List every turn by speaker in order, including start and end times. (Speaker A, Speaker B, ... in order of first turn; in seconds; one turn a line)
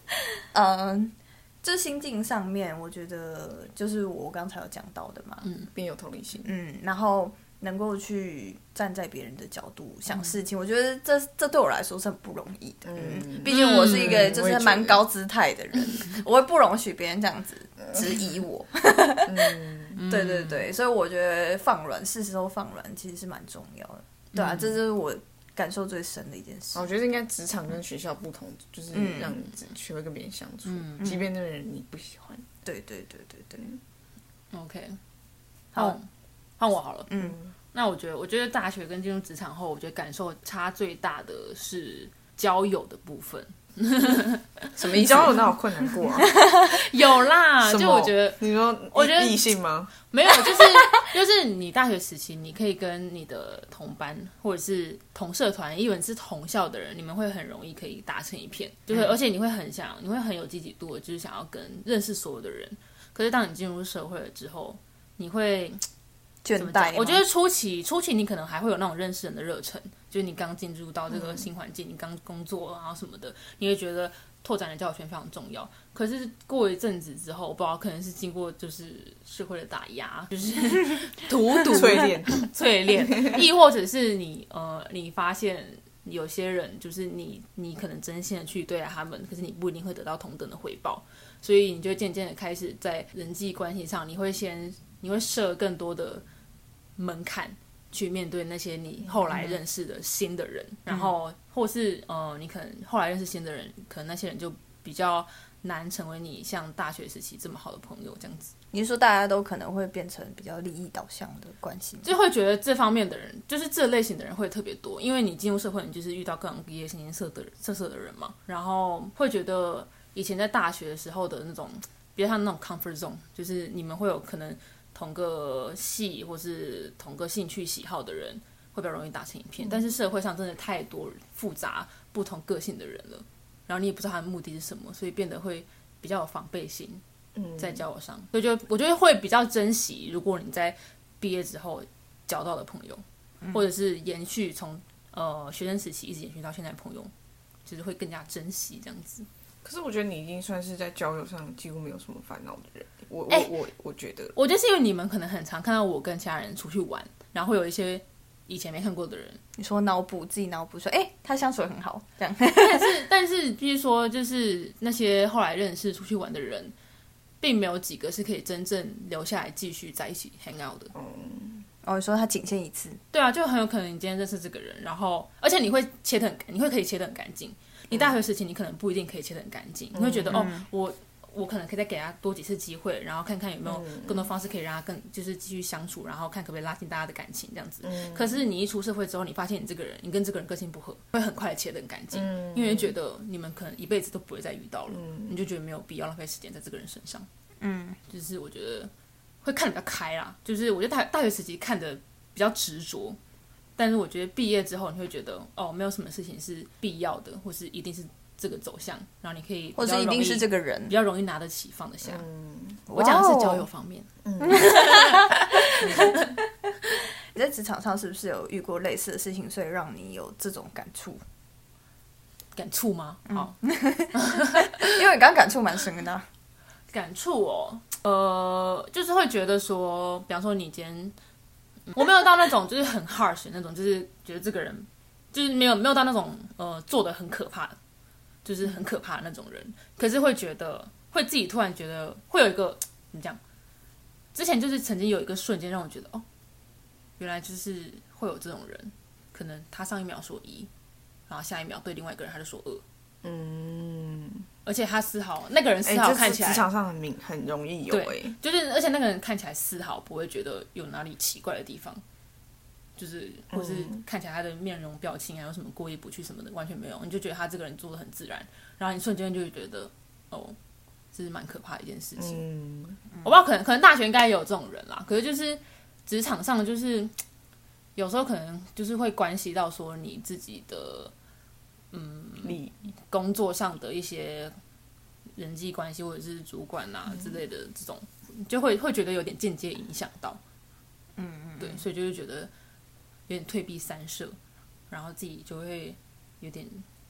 Speaker A: 0.5-5.5
Speaker B: 5.4-5.7
Speaker C: 5.7-6.5
Speaker A: 6.5-19.5
Speaker C: 12.8-15.0
Speaker B: 13.5-14.3
Speaker C: 19.3-20.0
Speaker B: 20.0-20.7
Speaker A: 20.1-26.8
Speaker B: 24.3-24.8
Speaker C: 26.7-32.5
Speaker A: 28.9-29.4
Speaker B: 30.7-31.1
Speaker A: 32.6-33.6
Speaker B: 34.5-35.0
Speaker B: 35.8-36.1
Speaker B: 36.6-37.1
Speaker A: 37.1-37.4
Speaker C: 37.2-37.5
Speaker B: 37.7-45.3
Speaker C: 44.8-46.3
Speaker A: 46.2-46.8
Speaker B: 46.6-48.4
Speaker C: 47.6-49.9
Speaker B: 48.9-49.5
Speaker B: 50.0-65.8
Speaker A: 66.4-67.2
Speaker B: 66.6-96.2
Speaker C: 81.7-82.5
Speaker C: 83.0-83.4
Speaker B: 97.0-108.5
Speaker A: 108.7-112.1
Speaker B: 112.0-137.0
Speaker C: 137.4-137.8
Speaker B: 137.6-147.1
Speaker B: 147.7-149.3
Speaker C: 149.6-154.3
Speaker B: 154.3-159.4
Speaker A: 159.6-163.0
Speaker B: 162.6-166.7
Speaker B: 167.4-170.9
Speaker C: 170.9-171.7
Speaker A: 171.8-173.0
Speaker B: 173.1-197.3
Speaker C: 179.9-180.5
Speaker A: 180.3-180.7
Speaker C: 183.7-184.3
Speaker C: 187.8-188.4
Speaker C: 192.1-192.9
Speaker C: 194.9-195.4
Speaker A: 197.6-198.0
Speaker B: 198.1-198.9
Speaker B: 199.4-203.2
Speaker B: 203.8-212.2
Speaker A: 209.8-211.0
Speaker C: 212.1-212.9
Speaker A: 212.9-213.7
Speaker B: 212.9-216.2
Speaker C: 214.2-214.9
Speaker A: 214.4-216.2
Speaker C: 215.8-216.2
Speaker A: 217.3-221.2
Speaker B: 222.6-223.6
Speaker A: 223.3-226.3
Speaker B: 224.1-225.0
Speaker B: 226.9-231.2
Speaker B: 231.9-237.8
Speaker B: 238.4-243.4
Speaker B: 244.3-246.2
Speaker B: 247.2-250.7
Speaker B: 251.3-252.8
Speaker C: 253.2-254.5
Speaker B: 254.7-256.7
Speaker C: 255.9-258.4
Speaker B: 257.9-262.0
Speaker B: 263.0-270.6
Speaker C: 263.5-264.0
Speaker B: 271.1-272.4
Speaker C: 272.2-273.0
Speaker B: 273.2-277.1
Speaker B: 278.0-281.1
Speaker B: 281.9-282.6
Speaker C: 282.4-282.7
Speaker B: 283.1-284.6
Speaker B: 285.4-290.4
Speaker A: 291.2-291.9
Speaker B: 291.6-292.5
Speaker B: 293.3-294.4
Speaker B: 294.9-296.9